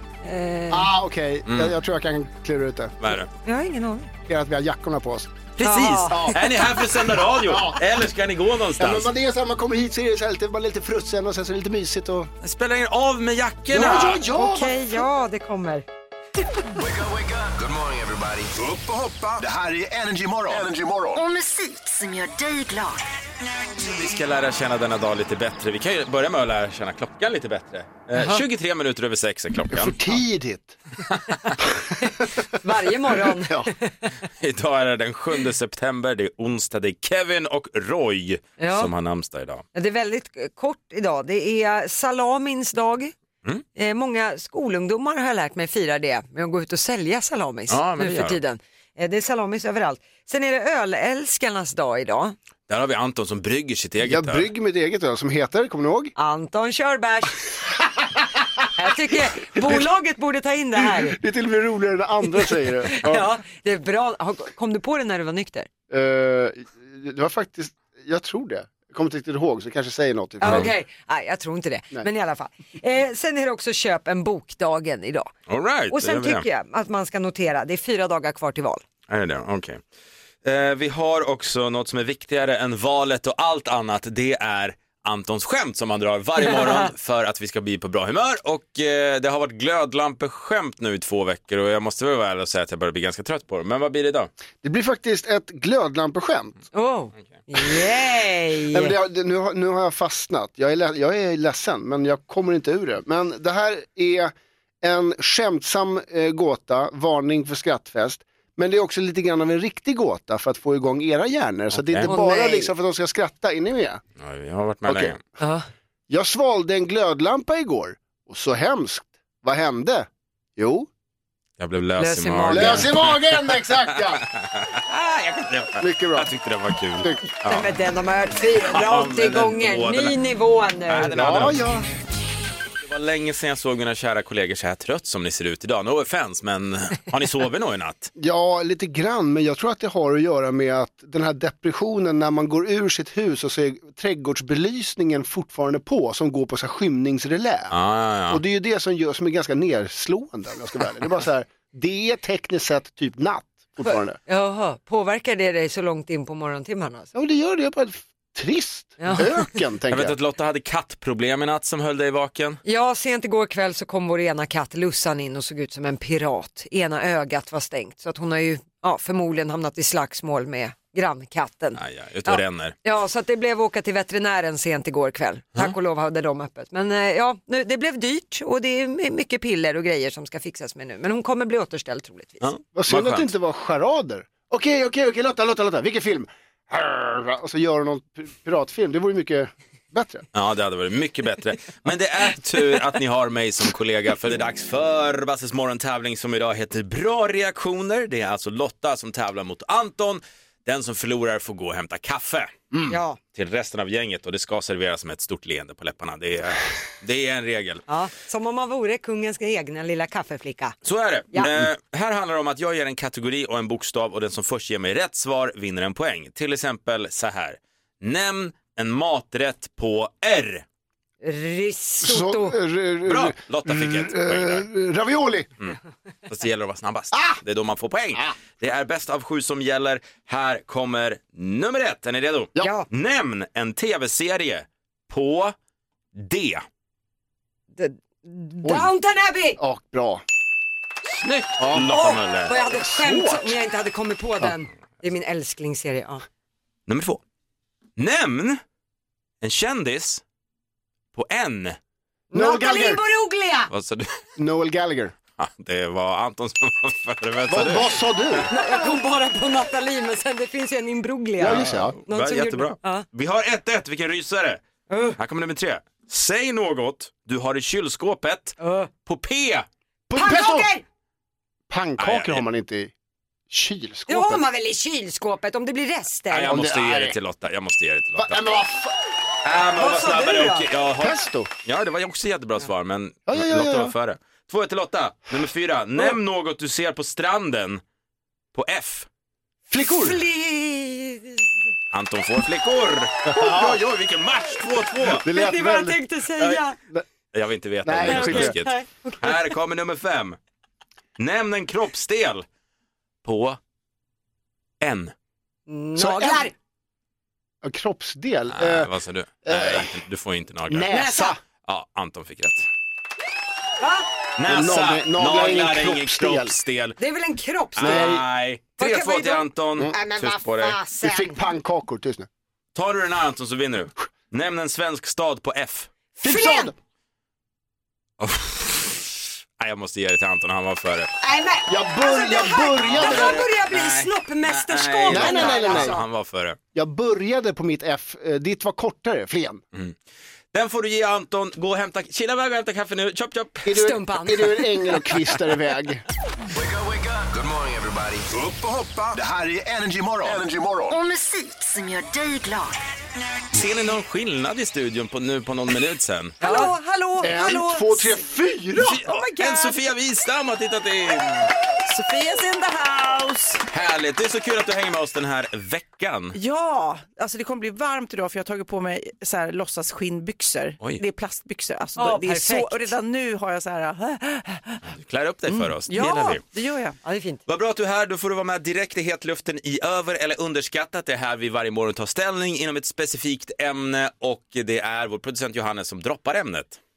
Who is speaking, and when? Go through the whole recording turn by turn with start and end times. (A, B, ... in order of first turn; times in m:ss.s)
0:00.2-0:00.9 A
0:00.7-0:03.0 B
0:01.5-0:01.7 C
0:03.0-0:03.3 C
0:03.4-0:04.1 A
0:04.3-0:05.4 B
0:05.6-0:09.1 C
0:05.6-0:06.3 A
0:06.1-0:06.4 B
0:07.1-0:07.8 B
0:08.8-0:12.3 B
0:12.4-0:14.2 C
0:13.7-0:15.0 B
0:13.8-0:15.8 A
0:16.8-0:21.2 D
0:21.2-0:23.0 E
0:23.8-0:30.2 C
0:28.1-0:28.4 A
0:29.7-0:30.8 B
0:32.0-0:34.1 A
0:33.3-0:33.7 B
0:34.4-0:39.6 C
0:38.6-0:38.9 A
0:39.7-0:43.1 A
0:43.8-0:52.4 A
0:47.7-0:48.4 C
0:52.7-0:54.5 C
0:54.0-0:56.1 B
0:56.2-0:57.5 A
0:58.8-1:01.2 A
1:00.8-1:03.2 B
1:02.9-1:05.7 A
1:05.9-1:10.7 B
1:10.4-1:15.3 A
1:10.4-1:10.7 C
1:15.5-1:16.4 C
1:15.9-1:18.8 A
1:19.1-1:19.8 C
1:20.4-1:34.3 C
1:34.6-1:36.7 B
1:36.7-1:38.9 A
1:38.7-1:54.0 B
1:51.7-1:52.1 C
1:52.1-1:52.7 A
1:54.2-1:55.2 C
1:54.8-1:55.2 B
1:55.4-1:55.7 A
1:56.1-2:00.9 B
2:01.6-2:03.4 C
2:02.0-2:02.9 A
2:02.5-2:04.2 B
2:04.2-2:07.6 C
2:05.8-2:06.3 B
2:07.4-2:11.1 A
2:08.7-2:10.1 C
2:10.9-2:11.7 C
2:11.1-2:11.8 B
2:12.8-2:18.1 C
2:18.2-2:27.8 B
2:27.7-2:28.4 C
2:28.3-2:34.2 B
2:33.8-2:37.1 A
2:37.1-2:40.2 B
2:39.0-2:39.3 A
2:39.9-2:42.6 C
2:42.6-3:02.5 A
2:51.8-2:52.8 C
3:02.4-3:03.3 C
3:02.8-3:10.2 B
3:10.3-3:22.7 C
3:22.9-3:23.2 A
3:23.3-3:27.8 C
3:27.9-3:30.8 A
3:30.8-3:40.6 C
3:41.2-3:42.6 A
3:42.0-3:45.5 B
3:43.0-3:44.6 C
3:46.3-3:55.6 C
3:47.1-3:47.4 B
3:52.6-3:52.9 A
3:56.1-3:56.6 C
3:57.8-3:59.6 A
3:58.6-3:58.9 B
3:59.6-4:00.2 B
4:01.1-4:02.5 C
4:01.6-4:02.0 B
4:01.9-4:06.2 A
4:02.5-4:03.6 B
4:06.9-4:07.2 C
4:08.0-4:08.6 C
4:09.4-4:10.2 C
4:11.1-4:11.8 C
4:12.3-4:13.7 A
4:12.3-4:13.0 B
4:13.7-4:14.1 C
4:14.4-4:15.1 B
4:15.4-4:18.4 C
4:17.5-4:18.5 B
4:18.5-4:23.1 A
4:21.4-4:21.9 B
4:21.4-4:24.6 C
4:24.9-4:25.2 A
4:25.2-4:29.7 C
4:28.6-4:28.9 A
4:30.1-4:30.7 B
4:30.1-4:30.8 A
4:31.7-4:32.9 B
4:32.0-4:32.4 C
4:33.5-4:34.4 B
4:34.1-4:36.6 A
4:36.3-4:38.5 C
4:36.4-4:37.2 B
4:38.1-4:38.9 B
4:39.4-4:47.8 C
4:39.8-4:40.6 A
4:41.0-4:41.5 B
4:43.3-4:43.9 B
4:48.5-4:49.1 C
4:49.7-4:50.2 B
4:49.8-4:51.5 A
4:51.9-4:55.2 C
4:53.2-4:53.8 B
4:55.1-4:57.0 B
4:55.2-4:56.8 A
4:57.3-5:00.4 C
4:57.8-4:58.5 B
4:58.0-4:59.5 A
5:01.2-5:02.4 C
5:03.2-5:03.6 C
5:04.8-5:05.1 C
5:05.7-5:06.5 A
5:06.0-5:06.5 B
5:07.6-5:08.9 B
5:08.5-5:10.9 C
5:09.4-5:09.9 B
5:10.7-5:11.4 B
5:11.6-5:12.7 C
5:13.8-5:14.1 A
5:14.4-5:17.0 C
5:14.4-5:16.5 B
5:17.0-5:18.2 A
5:17.8-5:20.8 C
5:17.8-5:18.2 B
5:18.8-5:19.5 A
5:19.8-5:20.1 B
5:20.5-5:21.3 A
5:20.9-5:22.3 B
5:22.8-5:25.9 C
5:26.2-5:26.7 A
5:26.2-5:26.8 B
5:28.2-5:31.1 C
5:31.2-5:36.0 A
5:31.7-5:33.4 B
5:32.8-5:36.6 C
5:35.1-5:36.0 B
5:36.7-5:39.6 B
5:40.5-5:43.7 C
5:43.6-5:46.0 B
5:43.7-5:44.9 A
5:46.5-5:51.0 D
5:50.9-5:52.8 E
5:53.5-5:56.4 C
5:56.4-5:57.6 A
5:56.4-5:58.0 F
5:57.2-5:59.0 B
5:58.8-6:01.5 C
5:59.1-5:59.7 A
6:01.7-6:03.6 F
6:03.7-6:06.4 C
6:06.3-6:14.8 F
6:12.0-6:12.9 A
6:14.9-6:16.4 C
6:15.5-6:17.0 F
6:17.0-6:17.4 A
6:17.5-6:26.8 C